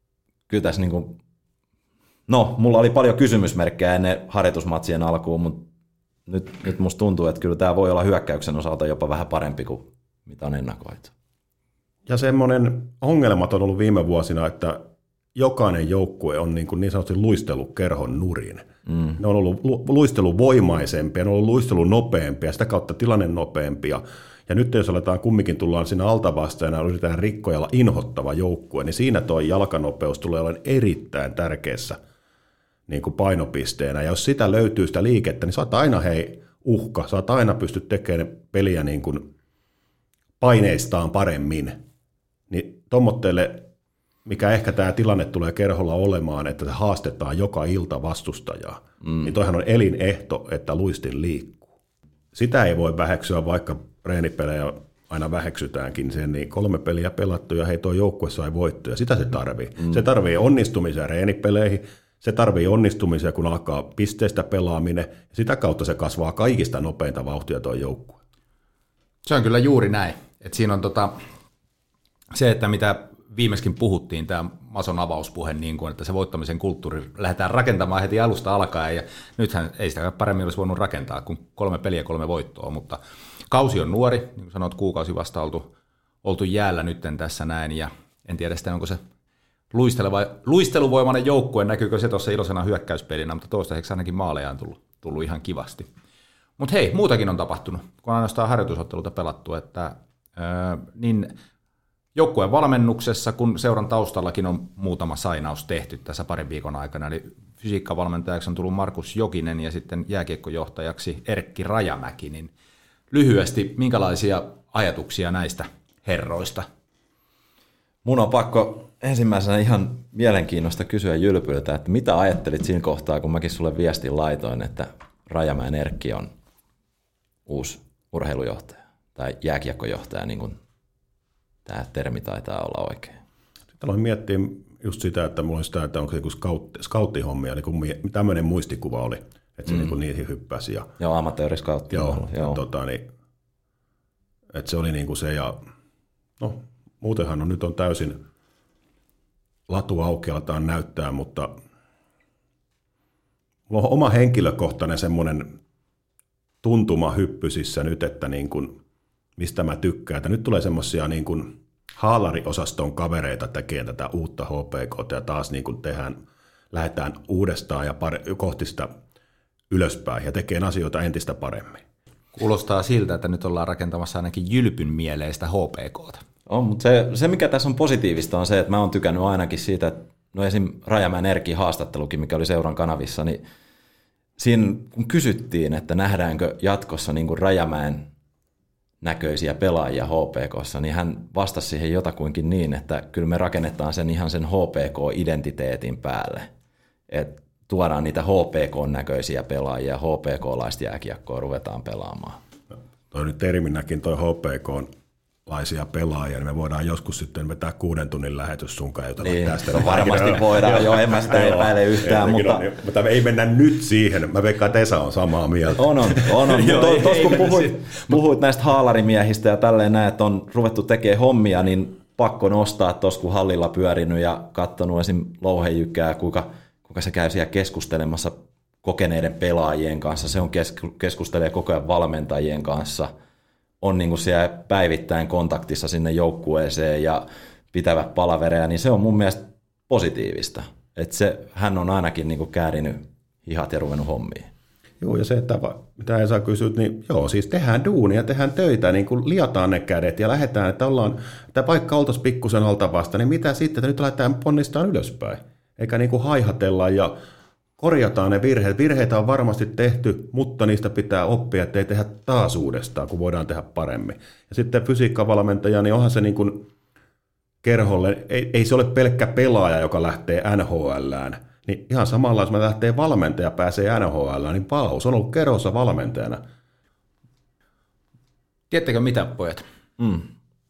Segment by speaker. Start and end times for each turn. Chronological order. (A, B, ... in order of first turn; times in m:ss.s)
0:00.5-0:01.2 A
0:02.3-0:05.7 A
0:06.3-0:11.1 A
0:12.1-0:14.8 B
0:15.4-0:18.7 B
0:19.2-0:32.0 B
0:32.9-0:39.2 B
0:40.4-0:41.8 B
0:42.5-0:43.6 B
0:44.3-0:51.6 B
0:52.3-1:08.2 B
1:09.2-1:11.2 C
1:12.3-1:29.0 C
1:29.7-1:35.9 C
1:36.6-1:41.3 C
1:42.2-1:52.5 C
1:53.1-1:56.7 C
1:58.0-2:06.3 A
2:07.5-2:10.6 A
2:11.7-2:13.2 A
2:13.8-2:20.9 B
2:21.0-2:22.6 A
2:21.9-2:23.1 B
2:24.5-2:25.6 B
2:26.4-2:28.2 B
2:29.7-2:31.5 B
2:33.7-2:35.5 B
2:36.6-2:38.7 B
2:39.4-2:46.2 B
2:46.7-2:48.9 B
2:49.7-2:51.8 B
2:52.4-2:56.2 C
2:56.5-3:03.4 A
3:04.4-3:08.1 A
3:09.0-3:16.5 A
3:17.1-3:22.4 A
3:23.1-3:24.9 B
3:25.5-3:36.5 B
3:29.2-3:32.6 A
3:35.8-3:53.1 A
3:36.7-3:37.5 C
3:53.8-4:04.5 A
4:05.0-4:17.2 B
4:17.8-4:26.7 B
4:27.6-4:36.4 B
4:38.7-4:40.2 C